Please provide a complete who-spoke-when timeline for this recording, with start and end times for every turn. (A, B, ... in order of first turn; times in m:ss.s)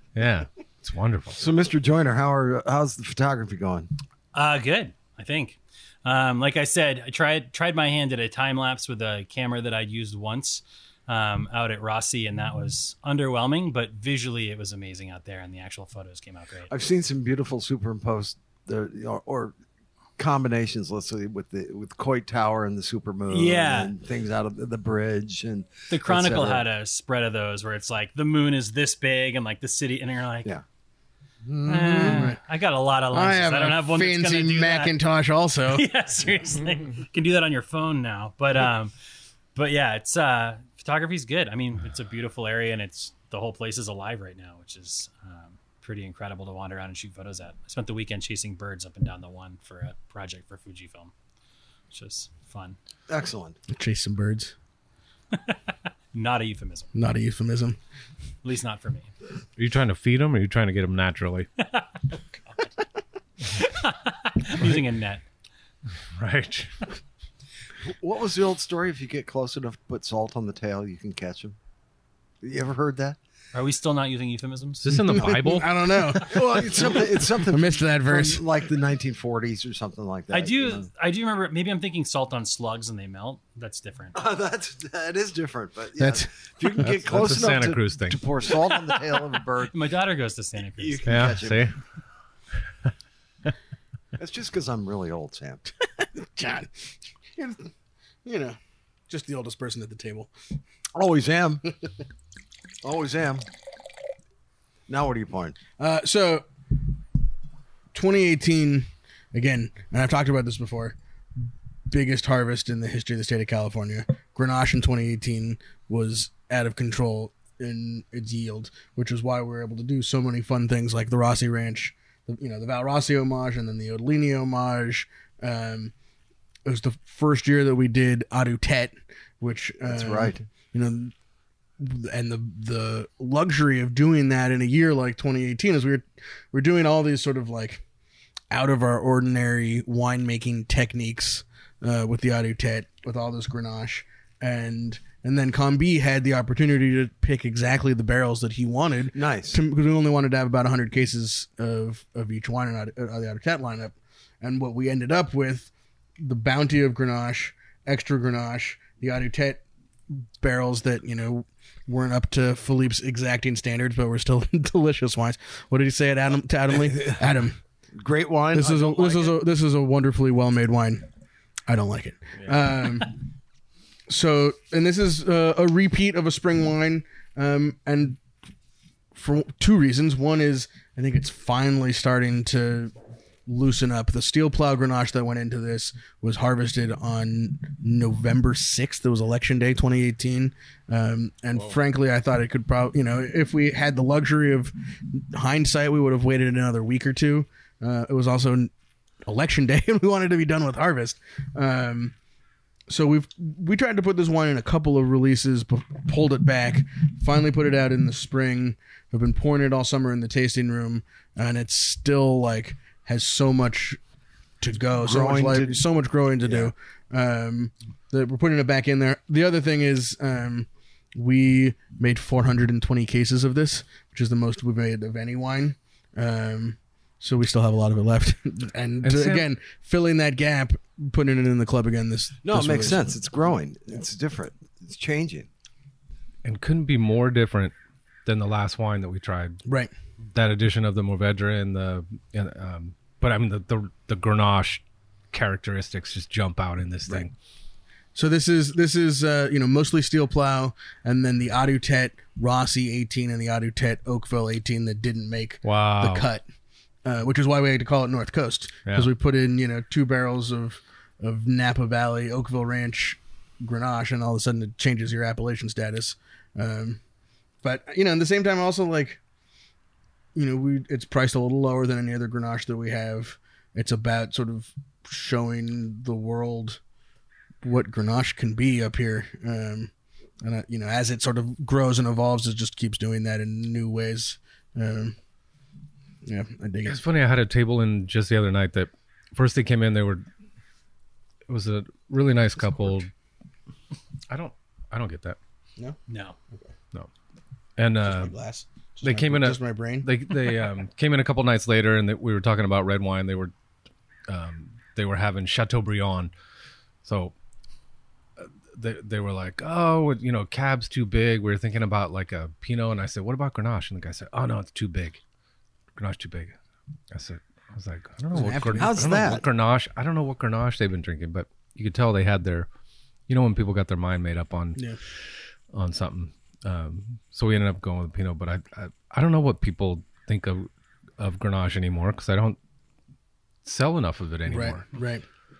0:00.1-0:01.4 A
0:01.4-0:03.9 B
0:04.3-0:16.7 C
0:16.7-0:19.5 B
0:20.2-0:26.6 B
0:23.3-0:23.9 C
0:25.9-0:30.6 C
0:31.5-0:32.4 D
0:31.6-0:35.0 C
0:33.1-0:35.8 D
0:35.6-0:38.9 C
0:39.5-0:51.1 C
0:51.9-0:52.8 C
0:53.1-0:53.6 B
0:53.7-0:54.5 D
0:55.3-0:55.6 C
0:56.1-0:56.9 C
0:56.9-0:57.8 D
0:58.4-0:59.1 C
0:59.6-1:01.5 A
1:01.6-1:02.7 C
1:03.4-1:05.2 C
1:06.2-1:06.8 A
1:07.8-1:11.6 B
1:12.4-1:13.2 B
1:13.5-1:15.2 C
1:14.8-1:16.0 A
1:14.9-1:18.4 D
1:16.2-1:20.9 B
1:20.3-1:24.2 C
1:24.1-1:29.9 B
1:26.0-1:26.3 D
1:26.8-1:28.3 A
1:29.7-1:31.2 C
1:30.8-1:31.7 B
1:31.0-1:31.8 A
1:34.2-1:35.6 B
1:36.2-1:37.7 D
1:38.2-1:38.6 D
1:39.1-1:40.3 D
1:40.9-1:41.7 B
1:42.8-1:43.4 B
1:44.9-1:45.6 B
1:45.8-1:46.5 D
1:47.9-2:05.9 D
2:06.6-2:11.1 D
2:09.9-2:10.4 B
2:11.8-2:17.8 D
2:18.5-2:47.6 D
2:29.1-2:29.6 B
2:46.9-2:47.2 B
2:48.0-2:49.4 B
2:48.5-2:51.0 D
2:51.7-2:53.2 D
2:54.1-2:58.2 D
2:59.1-3:02.9 D
3:03.5-3:18.7 D
3:19.2-3:22.1 D
3:22.9-3:34.0 D
3:34.6-3:53.1 D
3:35.0-3:35.8 B
3:36.4-3:36.7 B
3:49.0-3:49.5 A
3:52.4-3:55.5 B
3:56.4-3:57.7 A
3:58.2-3:59.6 A
3:59.6-3:59.9 D
4:00.3-4:07.3 A
4:08.1-4:16.4 D
4:15.6-4:16.3 A
4:17.0-4:27.0 D
4:27.6-4:29.2 D
4:30.3-4:36.8 D
4:37.6-4:45.1 D
4:46.2-4:47.0 D
4:46.8-4:50.2 A
4:51.5-4:53.1 A
4:54.3-4:55.4 A
4:56.1-4:56.4 C
4:57.8-4:58.3 A
4:58.0-5:00.1 D
4:59.0-5:03.5 A
5:04.3-5:06.3 A
5:07.0-5:07.3 A
5:08.4-5:15.2 A
5:16.0-5:16.6 A
5:17.1-5:22.7 A
5:18.3-5:19.1 D
5:18.8-5:19.4 B
5:23.3-5:24.8 A
5:25.7-5:32.6 A
5:33.6-5:34.8 A
5:34.5-5:35.2 D